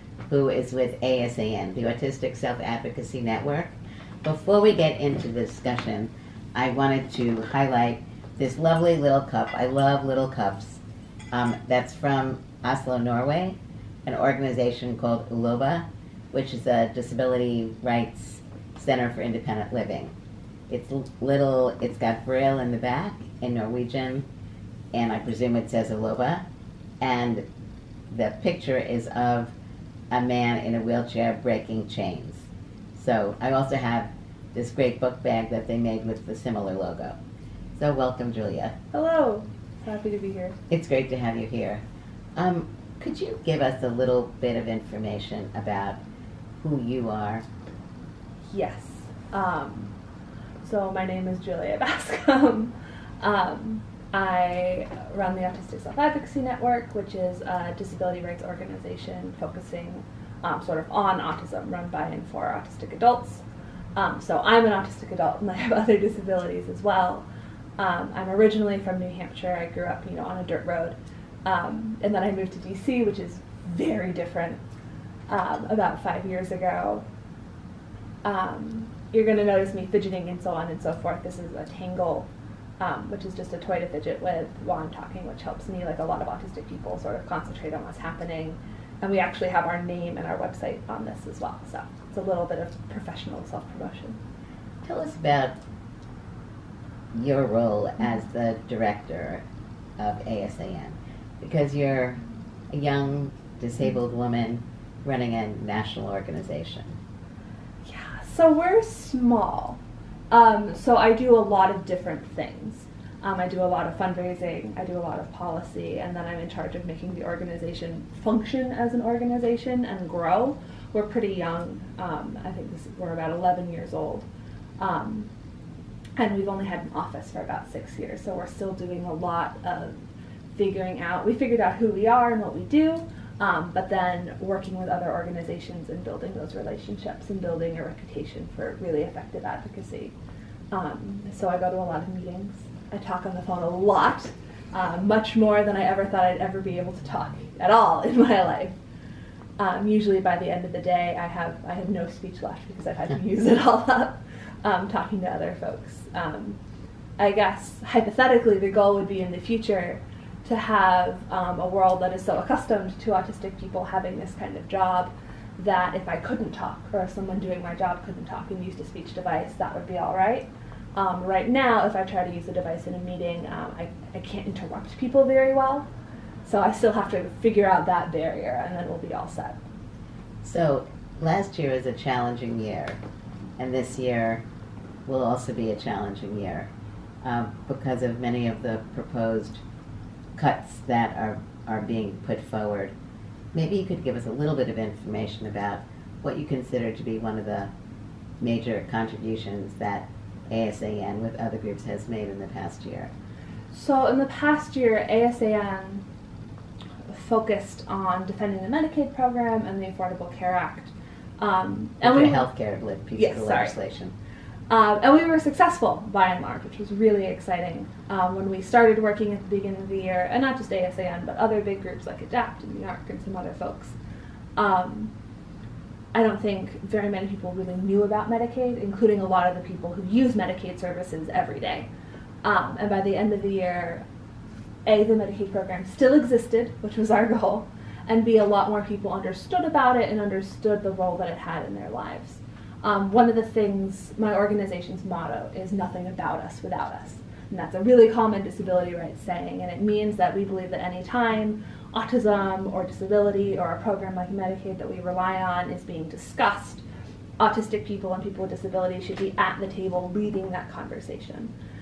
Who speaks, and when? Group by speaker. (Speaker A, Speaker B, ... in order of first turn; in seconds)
Speaker A: 0.3-20.1, 20.7-24.2, 24.9-26.4, 27.0-27.4, 28.1-29.5, 30.1-37.1, 37.8-38.7, 40.7-41.8, 42.4-46.0, 46.6-47.4, 94.8-95.6, 97.1-99.4, 100.0-102.2, 102.7-107.0, 180.4-183.0, 183.6-184.4, 185.1-186.7, 187.2-189.6, 190.3-192.9, 193.5-197.7, 198.4-203.1, 212.0-214.1
Speaker B: 38.9-40.6, 48.5-49.9, 50.6-63.4, 64.0-67.2, 67.8-74.6, 75.3-77.0, 78.2-82.3, 82.8-94.2, 107.8-124.3, 124.8-125.3, 126.2-129.9, 130.5-140.1, 140.7-148.7, 149.6-156.6, 157.2-175.9, 176.4-179.6, 203.7-206.0, 207.1-212.5, 213.1-213.7, 214.7-223.9, 224.6-225.1, 226.1-231.9, 232.4-234.0, 234.8-256.8, 257.4-261.5